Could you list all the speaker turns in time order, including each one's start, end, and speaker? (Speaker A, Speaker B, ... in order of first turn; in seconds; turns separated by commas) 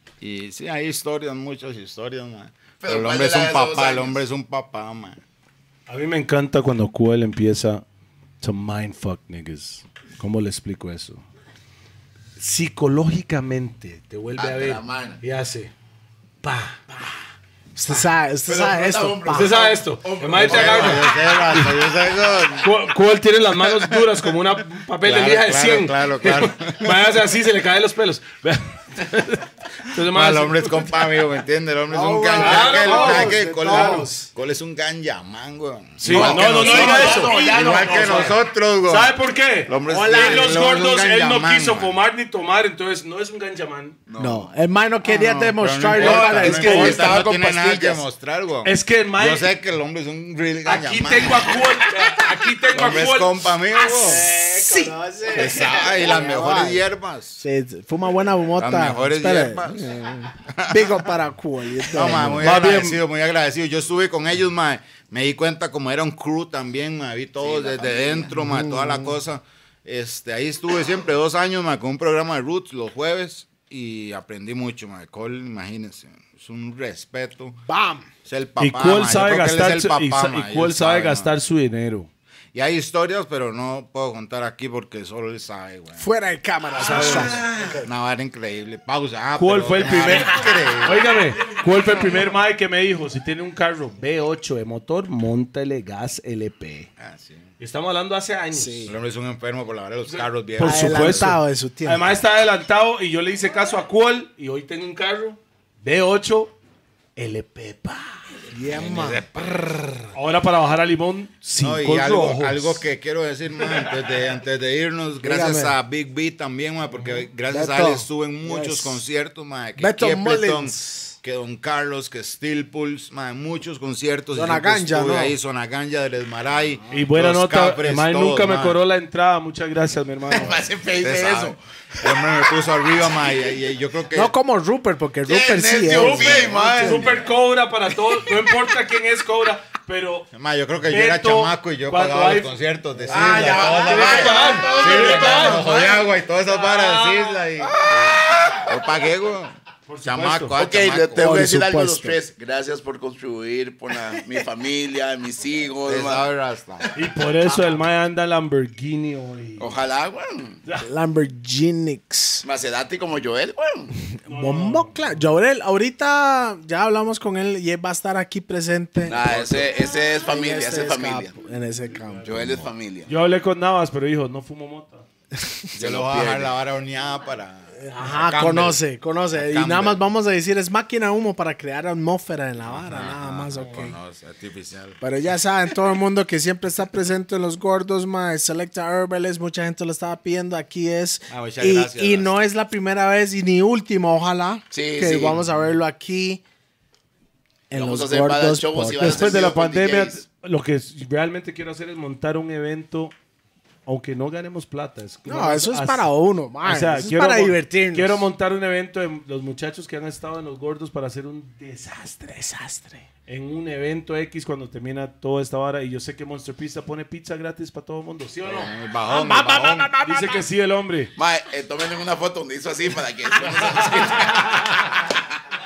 Speaker A: 0.2-5.2, Speaker B: 2.8-4.2, Speaker C: 5.9-7.8, Speaker C: 8.4-11.2, Speaker C: 12.4-15.7, Speaker B: 14.4-15.2, Speaker C: 16.4-16.8, Speaker D: 17.7-19.5, Speaker B: 18.4-21.1, Speaker C: 19.3-21.8, Speaker A: 20.3-22.8, Speaker C: 22.6-31.0, Speaker A: 23.6-24.3, Speaker A: 25.0-27.2, Speaker A: 30.0-42.0, Speaker D: 31.9-34.3, Speaker C: 32.3-34.1, Speaker C: 36.0-44.0, Speaker B: 36.0-38.4, Speaker D: 36.9-37.5, Speaker D: 39.9-40.6, Speaker B: 44.1-44.5, Speaker D: 44.2-47.1, Speaker A: 45.0-51.6, Speaker B: 45.9-48.0, Speaker C: 48.6-49.5, Speaker C: 50.6-54.9, Speaker A: 52.7-54.2, Speaker D: 54.0-56.9, Speaker A: 55.3-57.4, Speaker D: 57.4-62.5, Speaker A: 58.6-59.9, Speaker A: 60.5-61.1, Speaker A: 61.9-77.6, Speaker C: 62.4-63.0, Speaker B: 67.4-68.3, Speaker D: 68.4-69.1, Speaker D: 77.7-78.1, Speaker A: 78.2-81.3, Speaker C: 78.6-82.1, Speaker A: 82.5-86.0, Speaker D: 86.0-87.4, Speaker C: 86.8-87.7, Speaker A: 86.8-91.1, Speaker C: 89.4-96.9, Speaker D: 89.8-90.4, Speaker A: 97.0-97.5, Speaker C: 97.6-98.9, Speaker D: 98.5-98.9, Speaker A: 98.8-101.3, Speaker C: 100.0-106.5, Speaker D: 100.6-102.0, Speaker C: 107.2-108.4, Speaker D: 108.5-110.0, Speaker A: 108.7-109.6, Speaker C: 110.1-112.8, Speaker A: 111.6-128.8, Speaker D: 115.2-115.8, Speaker C: 117.0-117.3, Speaker D: 117.5-119.0, Speaker D: 119.8-121.1, Speaker D: 124.3-125.3, Speaker C: 126.9-130.7, Speaker A: 130.3-134.3, Speaker B: 130.3-132.1, Speaker D: 134.1-137.0, Speaker B: 135.2-137.2, Speaker C: 135.9-140.3, Speaker A: 140.3-151.5, Speaker C: 140.9-142.5, Speaker D: 143.0-143.7, Speaker B: 143.1-146.1, Speaker C: 143.5-145.7, Speaker C: 146.4-147.4, Speaker B: 147.8-148.7, Speaker C: 149.9-150.6, Speaker B: 150.6-156.2, Speaker D: 151.2-152.2, Speaker A: 155.8-156.9, Speaker C: 156.9-159.7, Speaker B: 159.6-160.6, Speaker D: 160.8-162.4, Speaker B: 162.4-163.9, Speaker D: 164.2-172.7, Speaker C: 164.3-165.2, Speaker B: 169.1-171.3, Speaker A: 169.2-169.7, Speaker C: 171.9-175.1, Speaker B: 172.2-173.1, Speaker B: 175.7-176.5, Speaker A: 175.8-178.8, Speaker D: 177.8-184.0, Speaker A: 179.3-180.1, Speaker A: 182.6-185.0, Speaker D: 185.0-196.4, Speaker A: 191.3-192.3, Speaker B: 194.7-195.4, Speaker D: 197.7-199.4, Speaker B: 197.7-200.2, Speaker C: 199.0-203.1, Speaker C: 203.8-206.1, Speaker D: 205.2-208.2, Speaker C: 206.6-212.2, Speaker D: 212.2-213.0, Speaker C: 213.3-218.7, Speaker A: 218.4-219.9, Speaker D: 219.1-220.4, Speaker C: 220.0-221.1, Speaker B: 221.2-224.8, Speaker C: 223.4-224.7